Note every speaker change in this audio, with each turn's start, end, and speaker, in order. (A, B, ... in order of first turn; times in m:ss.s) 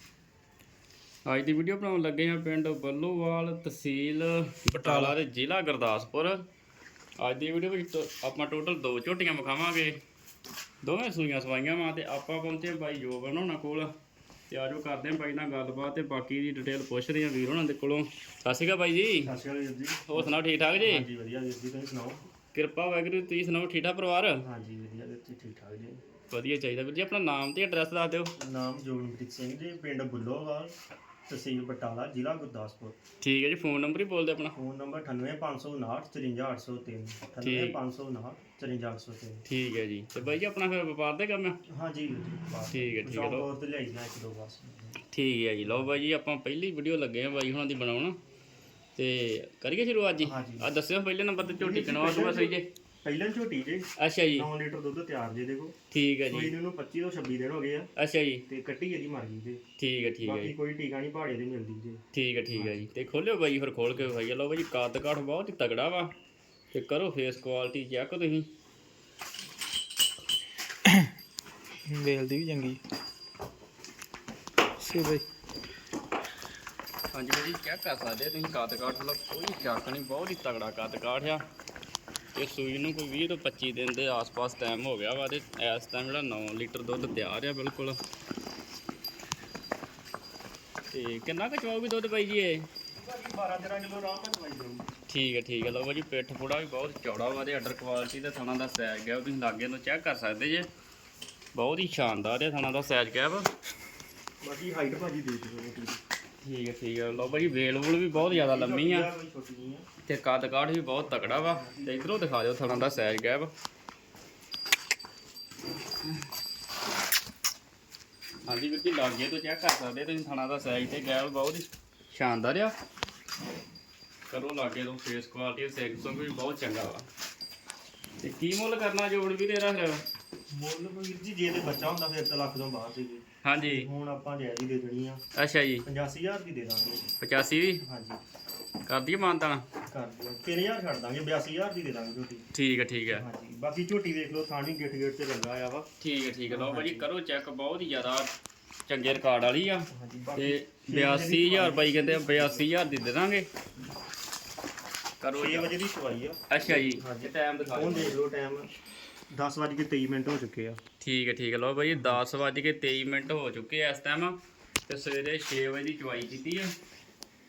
0:01.3-0:06.4 A
0:04.7-0:05.2 B
0:07.2-0:10.0 A
0:10.8-0:13.9 A
0:14.5-0:19.3 A
0:19.2-0:22.2 C
0:20.1-0:21.1 A
0:22.5-0:24.4 A
0:24.4-0:26.0 C
0:26.3-0:28.3 A
0:28.4-0:30.8 C
0:31.3-0:33.0 C
0:33.2-0:34.6 A
0:34.6-0:39.4 C
0:37.4-0:37.8 A
0:39.5-0:41.6 A
0:41.7-0:45.0 C
0:42.7-0:43.5 A
0:45.1-0:48.2 A
0:49.0-0:52.7 A
0:50.2-0:50.7 C
0:51.6-0:55.8 C
0:54.0-0:54.5 A
0:55.9-0:56.5 A
0:56.3-0:57.9 C
0:58.0-0:58.4 A
0:58.5-0:59.6 C
0:59.8-1:00.5 A
1:00.2-1:02.8 C
1:02.1-1:06.1 A
1:06.7-1:08.5 A
1:10.9-1:11.1 B
1:11.8-1:12.8 B
1:14.8-1:15.2 B
1:17.1-1:21.4 A
1:22.4-1:28.0 A
1:30.9-1:32.7 A
1:33.0-1:34.9 C
1:35.1-1:40.7 A
1:41.6-1:43.5 A
1:44.4-1:46.0 C
1:46.4-1:49.1 A
1:48.1-1:49.9 C
1:50.0-1:53.5 A
1:51.1-1:53.2 C
1:58.5-2:02.8 A
2:04.3-2:07.1 A
2:08.2-2:10.0 A
2:10.5-2:15.2 C
2:13.4-2:13.9 A
2:15.4-2:15.9 A
2:15.9-2:17.0 C
2:17.2-2:17.8 A
2:17.8-2:18.2 C
2:18.9-2:19.7 A
2:19.9-2:22.4 C
2:22.5-2:23.3 A
2:23.1-2:25.9 C
2:26.0-2:28.3 A
2:26.5-2:27.1 C
2:28.9-2:33.5 A
2:29.9-2:32.8 C
2:35.2-2:35.7 A
2:35.3-2:38.7 C
2:36.5-2:38.2 A
2:39.3-2:40.8 C
2:41.0-2:46.7 A
2:41.9-2:42.2 C